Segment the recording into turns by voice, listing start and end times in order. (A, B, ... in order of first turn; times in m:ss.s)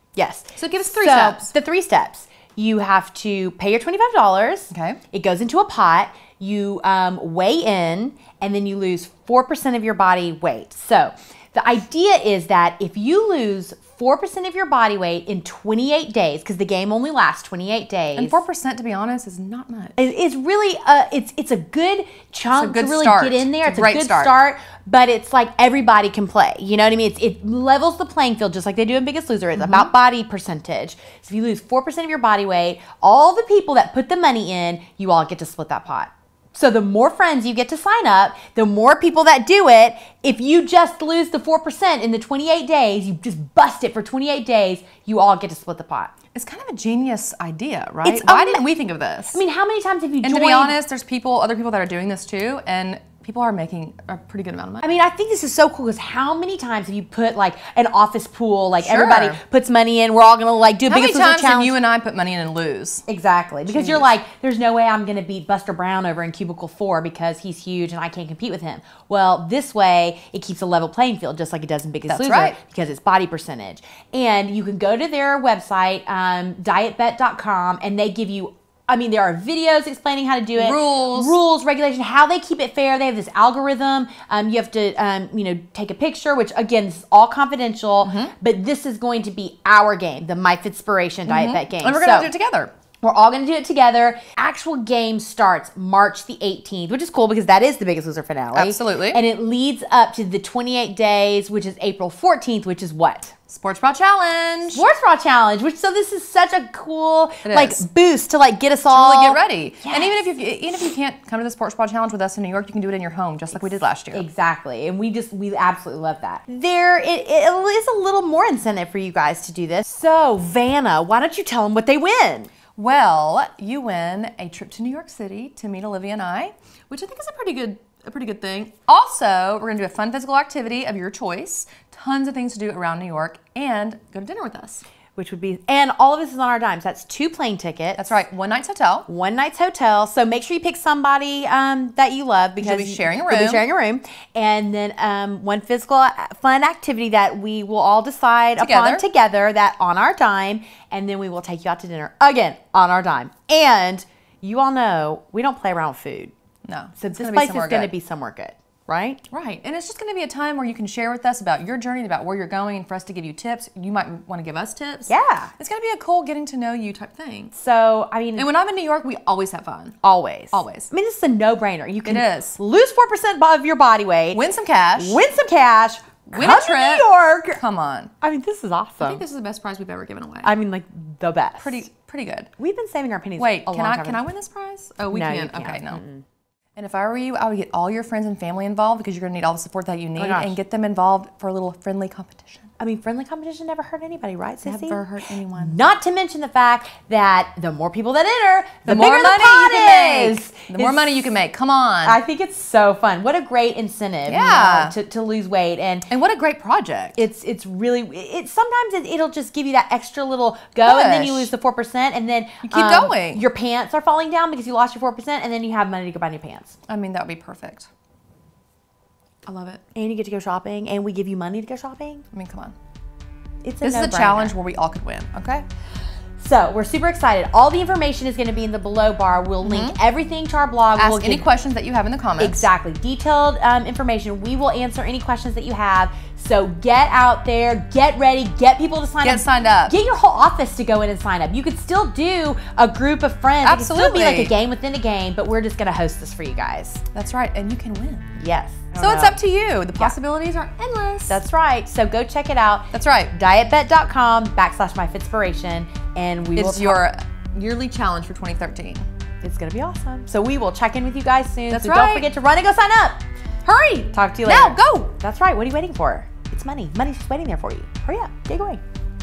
0:00.2-0:18.4 A
0:00.6-0:01.5 B
0:04.7-0:05.0 B
0:18.2-0:19.9 B
0:20.0-0:46.1 A
0:22.5-0:24.3 B
0:29.6-0:29.9 B
0:46.3-0:49.4 B
0:48.0-0:48.7 A
0:49.3-0:50.8 A
0:50.2-0:54.8 B
0:54.8-1:01.8 A
0:58.8-0:59.4 B
1:00.9-1:03.0 B
1:03.1-1:32.3 A
1:03.7-1:04.1 B
1:12.1-1:12.6 B
1:20.6-1:21.3 B
1:28.0-1:28.3 B
1:31.3-1:32.7 B
1:33.0-1:43.3 A
1:38.5-1:39.2 B
1:43.5-1:44.8 B
1:44.7-1:50.2 A
1:47.4-1:47.8 B
1:48.9-1:54.2 B
1:53.5-2:02.5 A
2:02.8-2:14.8 B
2:15.1-2:18.2 A
2:18.0-2:19.1 B
2:19.1-2:36.3 A
2:22.6-2:23.6 B
2:28.6-2:29.0 B
2:36.6-2:37.9 B
2:37.0-2:39.2 A
2:39.3-2:47.5 B
2:45.1-2:45.5 A
2:47.5-2:48.5 A
2:48.4-2:50.0 B
2:50.0-2:54.4 A
2:50.5-2:50.9 B
2:52.0-2:52.6 B
2:54.3-2:55.2 B
2:55.0-2:57.6 A
2:56.3-2:58.1 B
2:58.2-2:59.2 A
2:59.0-3:00.5 B
3:00.4-3:01.8 A
3:01.6-3:02.5 B
3:02.6-3:04.2 A
3:03.4-3:06.0 B
3:05.1-3:06.2 A
3:06.8-3:12.7 B
3:10.2-3:10.6 A
3:12.8-3:15.0 A
3:14.6-3:15.8 B
3:15.5-3:21.3 A
3:18.8-3:22.2 B
3:22.0-3:26.1 A
3:24.2-3:25.0 B
3:26.1-3:27.2 B
3:27.2-3:36.8 A
3:30.8-3:31.5 B
3:32.6-3:33.4 B
3:36.9-3:37.9 B
3:39.4-3:39.8 B
3:39.9-3:42.2 A
3:42.3-3:42.8 B
3:43.6-3:44.5 A
3:43.8-3:45.6 B
3:46.4-3:51.5 A
3:49.6-3:50.0 B
3:51.0-3:52.7 B
3:52.4-4:07.0 A
3:59.2-4:00.0 B
4:03.6-4:04.5 B
4:07.1-4:08.3 B
4:08.4-4:09.4 A
4:09.0-4:11.4 B
4:11.3-4:17.0 A
4:12.9-4:13.3 B
4:16.5-4:19.0 B
4:19.4-4:28.8 A
4:21.7-4:22.3 B
4:24.4-4:25.1 B